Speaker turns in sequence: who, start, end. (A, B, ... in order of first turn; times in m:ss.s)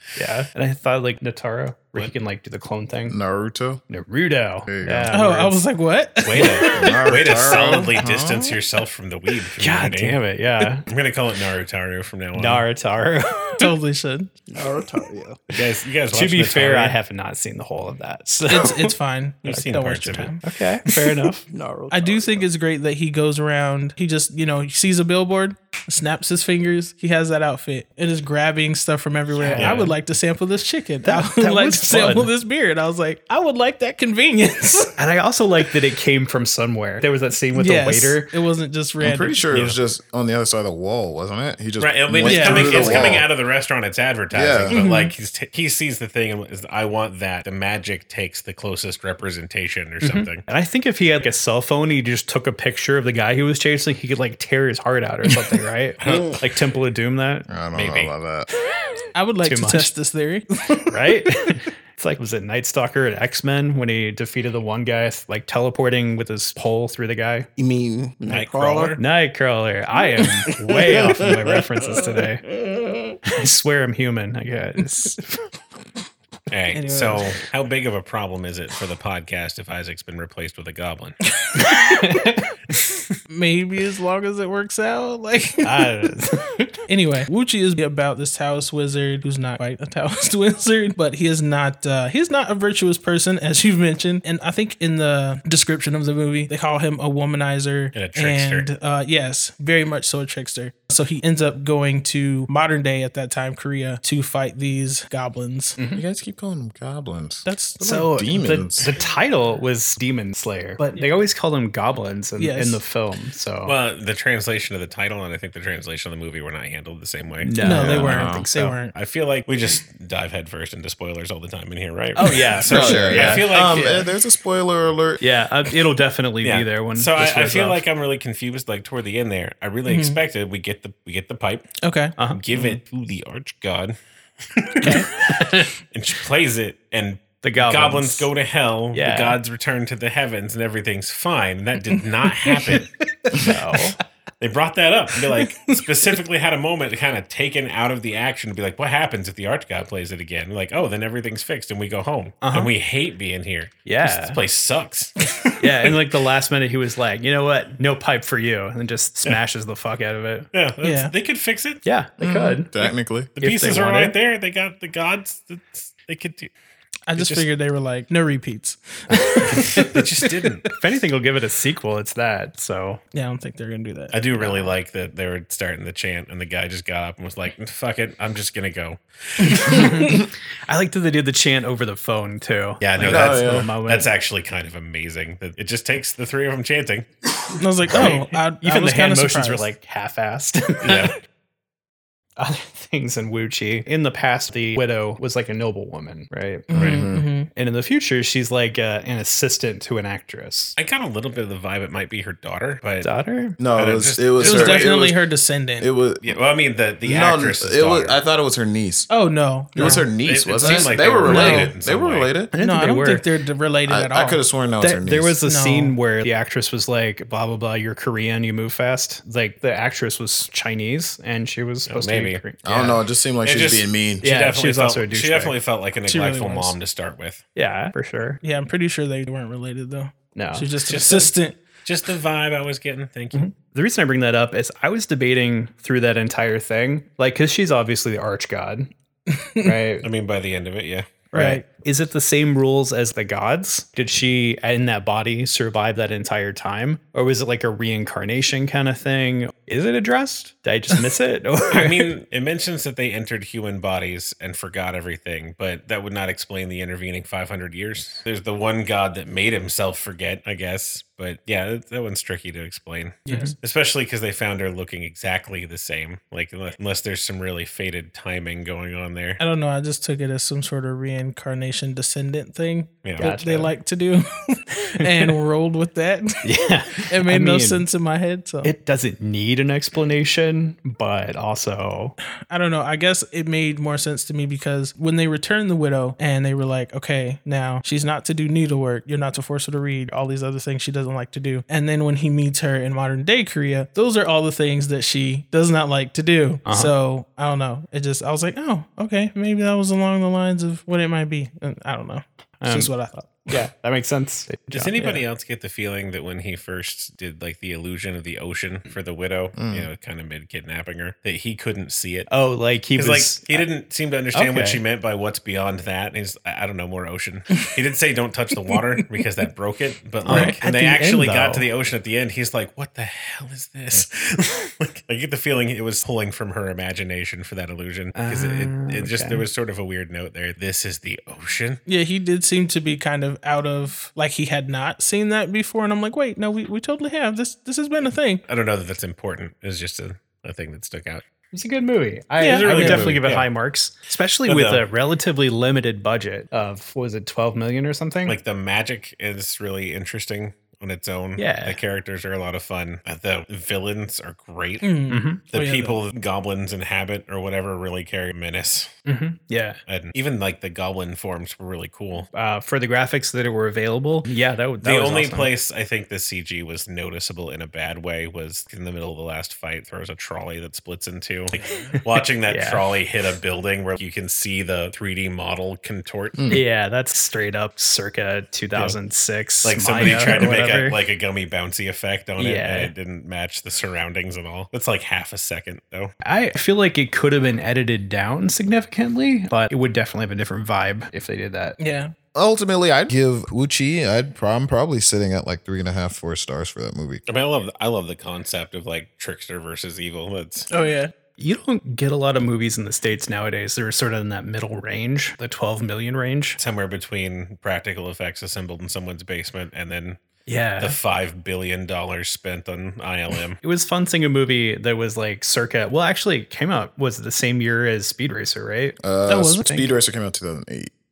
0:00.2-0:03.2 A
0:03.1-0:03.8 B
0:03.9-0:05.6 A
0:04.6-0:05.2 B
0:05.1-0:07.0 C
0:06.2-0:10.2 D
0:06.3-0:06.7 A
0:06.8-0:08.6 B
0:09.6-0:10.8 A
0:10.9-0:12.6 D
0:12.3-0:13.7 A
0:13.6-0:14.3 C
0:14.5-0:15.4 E
0:15.5-0:17.0 D
0:16.1-0:18.9 A
0:18.5-0:20.4 C
0:19.4-0:20.3 D
0:20.4-0:21.4 A
0:21.5-0:22.5 E
0:21.9-0:34.9 C
0:29.3-0:29.9 A
0:29.6-0:29.9 D
0:31.0-0:32.3 A
0:35.0-0:38.3 A
0:37.5-0:39.4 C
0:39.0-0:43.3 B
0:41.8-0:50.4 D
0:42.2-0:43.1 C
0:44.3-0:44.8 B
0:44.7-0:45.1 C
0:50.0-0:57.5 A
0:56.0-0:56.4 D
0:56.1-0:56.3 E
0:57.5-0:58.5 B
0:57.7-0:58.1 D
0:59.1-1:01.0 C
0:59.4-0:59.9 A
1:00.9-1:07.5 A
1:07.6-1:09.0 E
1:08.3-1:09.0 D
1:09.0-1:12.5 A
1:13.4-1:15.4 A
1:16.5-1:21.2 D
1:16.7-1:17.3 C
1:21.4-1:21.9 C
1:21.6-1:22.5 A
1:22.7-1:23.0 D
1:23.3-1:26.1 C
1:25.6-1:26.7 A
1:26.9-1:45.8 C
1:37.9-1:38.7 D
1:45.8-1:46.0 A
1:46.0-1:48.9 B
1:47.4-1:48.0 C
1:47.8-1:53.8 A
1:52.4-1:52.8 C
1:53.6-1:57.6 D
1:57.4-1:58.8 A
1:57.6-1:58.9 C
1:57.6-1:58.5 B
1:58.9-2:04.1 D
2:02.2-2:03.9 A
2:02.6-2:05.2 B
2:05.2-2:07.8 A
2:06.4-2:11.7 D
2:09.8-2:10.2 C
2:11.8-2:12.1 C
2:12.3-2:14.0 D
2:14.5-2:15.0 D
2:14.8-2:15.7 A
2:15.9-2:22.9 D
2:17.4-2:18.3 A
2:18.9-2:19.4 A
2:21.9-2:22.7 C
2:23.3-2:23.9 A
2:24.4-2:35.1 D
2:25.3-2:25.8 C
2:32.4-2:32.7 A
2:33.8-2:34.4 A
2:35.6-2:40.5 A
2:40.5-2:41.8 D
2:40.8-2:41.1 C
2:41.8-2:44.2 A
2:42.2-2:43.3 B
2:43.4-2:46.5 D
2:47.1-2:49.7 C
2:47.1-2:47.5 D
2:49.1-2:50.0 A
2:49.5-2:50.8 D
2:50.6-2:53.0 A
2:53.1-2:54.2 C
2:54.1-2:59.7 D
2:54.4-2:54.7 A
2:59.6-3:00.2 C
2:59.6-3:04.1 A
3:02.8-3:07.1 D
3:03.0-3:03.7 B
3:07.6-3:09.7 C
3:07.9-3:11.1 A
3:07.9-3:08.2 D
3:10.8-3:11.1 D
3:12.4-3:16.8 A
3:16.7-3:17.5 C
3:16.7-3:17.2 B
3:17.5-3:20.7 A
3:20.8-3:23.1 D
3:23.0-3:23.6 A
3:23.6-3:25.2 B
3:23.7-3:25.0 D
3:24.4-3:25.9 C
3:25.8-3:26.3 B
3:26.2-3:28.2 D
3:27.0-3:29.1 B
3:29.1-3:30.1 C
3:29.7-3:32.5 B
3:30.2-3:32.3 D
3:30.6-3:31.7 C
3:32.5-3:33.2 A
3:32.6-3:34.4 C
3:33.8-3:35.4 B
3:34.8-3:43.0 A
3:35.4-3:36.0 C
3:41.8-3:42.4 D
3:42.6-3:44.2 B
3:43.4-3:47.4 D
3:44.2-3:45.6 A
3:46.0-3:46.8 C
3:47.5-3:48.4 A
3:48.4-3:51.6 C
3:50.3-3:50.7 A
3:50.8-3:51.3 D
3:51.8-3:53.4 D
3:53.3-3:58.9 A
3:59.3-3:59.8 C
3:59.6-4:00.1 A
4:00.0-4:01.3 D
4:01.3-4:12.1 A
4:01.3-4:01.6 C
4:11.7-4:29.4 D
4:23.2-4:23.6 C
4:23.3-4:23.5 A
4:29.4-4:36.4 C
4:33.0-4:33.3 D
4:33.2-4:33.7 A
4:36.4-4:37.8 A
4:37.0-4:38.7 C
4:38.6-4:42.1 A
4:42.5-5:03.6 C
4:56.6-4:56.9 A
5:02.6-5:02.9 A
5:03.5-5:05.2 A
5:04.7-5:12.3 D
5:09.6-5:09.9 B
5:12.3-5:13.6 A
5:12.9-5:31.8 D
5:14.3-5:14.8 A
5:20.2-5:21.7 A
5:20.3-5:20.6 C
5:28.1-5:29.4 A
5:31.8-5:38.4 C
5:38.4-5:41.2 D
5:41.5-5:48.4 A
5:42.4-5:43.1 C
5:42.5-5:43.5 D
5:44.4-5:44.8 D
5:48.2-5:58.9 D
5:51.4-5:51.8 A
5:54.8-5:56.0 C
5:55.1-5:55.4 A
5:59.0-5:59.8 A
5:59.9-6:02.3 D
6:02.3-6:05.5 A
6:04.8-6:16.6 D
6:11.9-6:12.9 A
6:16.4-6:16.6 B
6:16.5-6:21.0 A
6:19.6-6:26.1 D
6:22.4-6:22.9 A
6:26.2-6:31.8 A
6:31.8-6:32.1 C
6:32.3-6:37.2 B
6:37.3-6:40.7 D
6:40.7-6:41.1 C
6:41.4-6:46.6 A
6:46.6-6:50.2 D
6:50.4-6:51.0 A
6:50.8-6:53.6 D
6:53.6-6:59.9 A
6:59.0-7:00.9 B
6:59.3-6:59.6 C